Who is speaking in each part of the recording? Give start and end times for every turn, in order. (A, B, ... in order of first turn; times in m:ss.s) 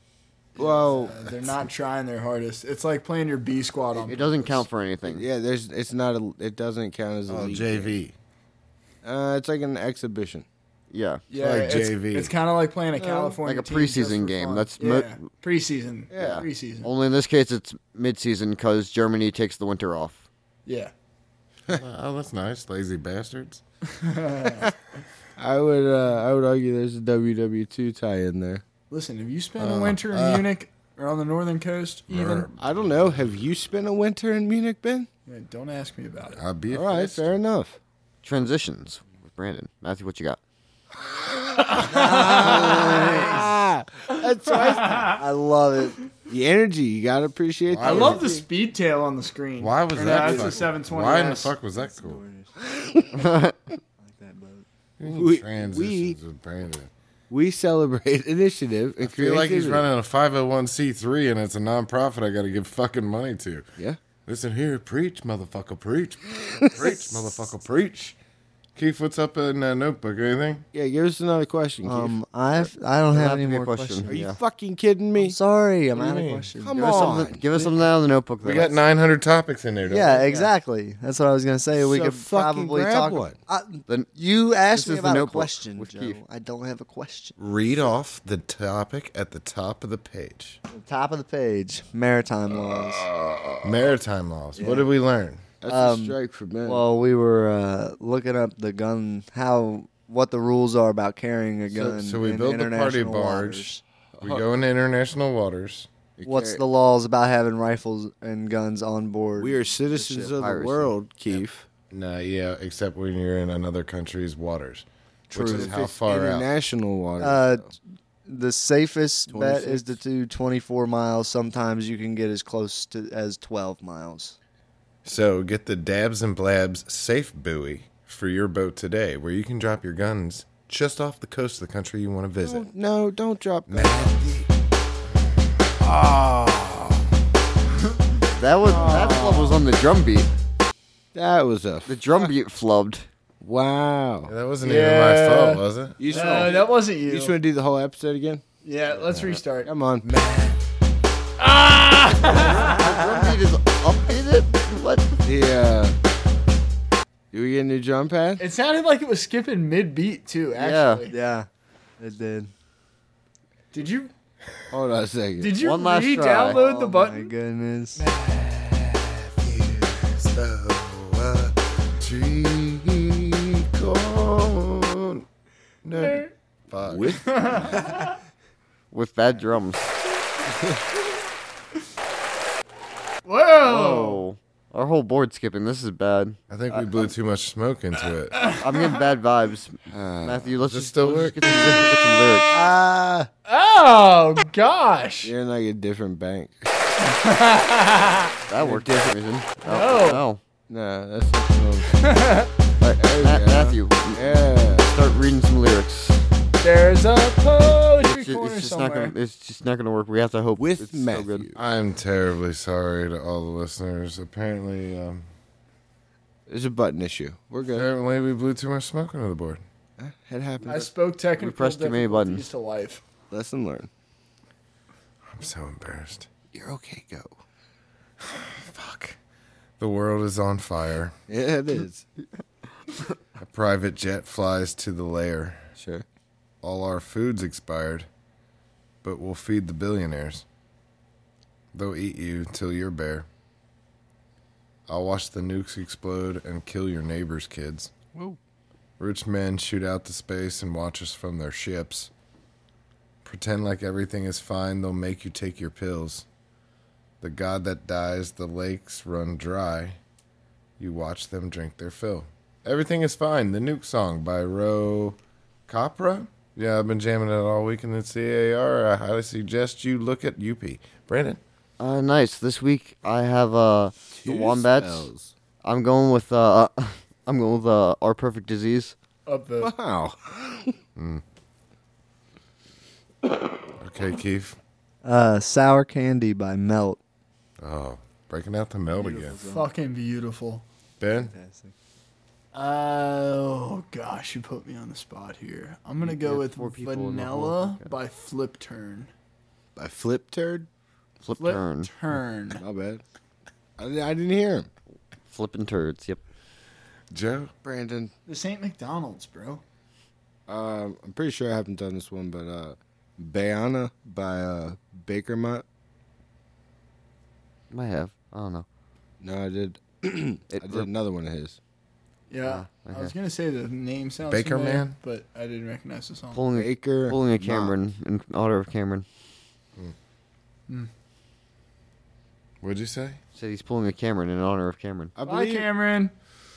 0:00.5-0:04.6 A
0:00.6-0:01.3 B
0:04.1-0:05.2 C
0:05.0-0:07.9 B
0:07.3-0:08.1 D
0:09.0-0:10.4 B
0:10.9-0:11.2 C
0:11.3-0:16.9 A
0:11.3-0:12.3 D
0:13.0-0:13.4 B
0:13.4-0:15.2 C
0:16.1-0:16.5 B
0:16.2-0:20.2 C
0:20.6-0:20.9 A
0:21.7-0:23.6 D
0:23.9-0:24.7 A
0:25.4-0:28.6 B
0:28.9-0:32.5 A
0:29.6-0:30.5 D
0:32.1-0:33.3 D
0:32.6-0:35.1 B
0:35.2-0:36.4 A
0:36.3-0:37.4 D
0:36.7-0:37.8 B
0:38.2-0:40.4 C
0:41.1-0:45.1 B
0:41.7-0:43.3 A
0:41.8-0:43.4 E
0:44.2-0:45.2 A
0:45.1-0:46.0 E
0:46.3-0:48.4 B
0:47.7-0:48.4 D
0:47.8-0:51.6 A
0:49.6-0:52.2 D
0:50.0-0:50.7 B
0:51.7-0:52.6 E
0:52.6-0:53.3 B
0:53.2-0:53.5 C
0:54.0-0:54.6 E
0:55.0-0:56.9 D
0:55.1-0:56.2 B
0:57.3-0:59.9 B
0:59.0-1:03.7 D
1:04.2-1:08.2 D
1:06.6-1:07.3 B
1:08.8-1:10.6 D
1:10.7-1:12.2 B
1:11.8-1:14.2 E
1:13.1-1:14.4 C
1:14.1-1:15.4 B
1:15.2-1:17.2 E
1:15.9-1:16.5 D
1:16.6-1:17.8 B
1:16.8-1:18.7 C
1:18.4-1:20.3 D
1:19.8-1:27.4 E
1:20.2-1:20.5 C
1:21.7-1:23.4 B
1:24.6-1:26.2 C
1:27.4-1:30.6 D
1:30.7-1:33.1 E
1:33.6-1:35.4 D
1:34.6-1:34.9 E
1:34.6-1:34.8 B
1:35.6-1:36.8 B
1:35.6-1:43.8 E
1:41.7-1:45.9 D
1:44.2-1:44.5 B
1:46.2-1:46.6 B
1:46.2-1:50.3 E
1:49.4-1:51.7 B
1:50.4-1:50.9 C
1:51.9-1:56.5 D
1:55.3-1:55.7 E
1:55.4-1:57.7 B
1:57.2-2:04.4 E
1:59.3-2:00.0 B
2:05.0-2:12.7 D
2:12.4-2:14.2 B
2:13.7-2:14.5 D
2:15.8-2:17.0 B
2:18.4-2:20.3 C
2:18.6-2:19.6 B
2:21.1-2:22.3 B
2:21.9-2:23.0 C
2:23.4-2:24.3 B
2:24.3-2:26.4 D
2:24.6-2:27.3 A
2:26.0-2:28.4 B
2:28.6-2:29.7 A
2:29.6-2:30.1 B
2:30.0-2:30.6 D
2:31.4-2:33.3 A
2:32.2-2:35.2 C
2:35.2-2:36.0 B
2:37.3-2:38.4 B
2:38.4-2:41.1 A
2:40.6-2:41.0 C
2:41.1-2:41.5 E
2:42.0-2:42.5 E
2:43.7-2:44.1 A
2:44.7-2:45.6 B
2:45.4-2:47.3 A
2:45.6-2:46.7 C
2:46.4-2:48.0 E
2:48.0-2:49.0 A
2:48.9-2:55.2 D
2:55.8-2:57.3 D
2:56.0-2:56.3 A
2:56.8-2:58.0 B
2:57.2-2:58.2 A
2:58.9-2:59.9 C
3:00.5-3:00.8 B
3:03.2-3:04.2 A
3:03.6-3:07.1 C
3:06.5-3:08.4 D
3:08.3-3:09.0 A
3:08.4-3:12.5 C
3:09.9-3:10.6 B
3:10.7-3:11.9 D
3:12.5-3:13.3 E
3:13.4-3:15.3 A
3:15.2-3:16.7 B
3:17.0-3:18.8 A
3:18.5-3:20.4 C
3:19.6-3:20.2 A
3:20.7-3:22.0 B
3:21.9-3:22.5 A
3:22.8-3:26.2 C
3:23.0-3:24.9 B
3:26.6-3:29.1 A
3:28.0-3:31.4 C
3:30.6-3:31.6 B
3:31.6-3:35.2 D
3:36.5-3:37.9 B
3:37.7-3:39.6 D
3:40.0-3:40.9 B
3:40.6-3:43.0 A
3:41.4-3:42.4 C
3:43.3-3:43.9 B
3:45.3-3:46.3 D
3:46.5-3:47.4 B
3:48.2-3:49.2 D
3:49.8-3:51.2 D
3:51.3-3:52.0 B
3:53.4-3:55.6 D
3:55.8-3:56.0 B
3:56.6-3:58.1 D
3:59.0-4:00.4 D
4:01.7-4:03.3 D
4:04.9-4:07.9 D
4:08.1-4:08.4 B
4:09.0-4:12.1 D
4:13.2-4:16.2 D
4:17.2-4:20.0 D
4:20.8-4:31.4 D
4:31.8-4:35.1 C
4:34.1-4:35.3 B
4:35.6-4:39.0 C
4:39.2-4:39.7 A
4:39.6-4:40.8 B
4:41.0-4:41.2 D
4:43.8-4:44.6 D
4:45.0-4:47.0 E
4:47.6-4:49.4 D
4:48.9-4:49.7 E
4:49.4-4:50.6 A
4:51.0-4:51.3 D
4:51.1-4:51.7 E
4:52.5-4:59.1 A
4:56.0-4:57.9 C
4:59.8-5:00.7 B
5:01.2-5:01.9 C
5:01.4-5:02.6 A
5:02.5-5:03.0 B
5:03.8-5:04.7 B
5:05.3-5:06.2 C
5:07.1-5:07.5 D
5:07.6-5:08.1 B
5:08.3-5:09.6 A
5:10.5-5:15.6 B
5:17.7-5:18.6 C
5:19.2-5:21.6 B
5:20.5-5:20.8 C
5:22.3-5:26.4 A
5:22.4-5:23.1 C
5:24.2-5:25.0 D
5:26.3-5:29.0 C
5:26.5-5:27.7 B
5:32.6-5:33.2 D
5:33.4-5:35.1 C
5:35.2-5:35.7 B
5:35.2-5:36.1 A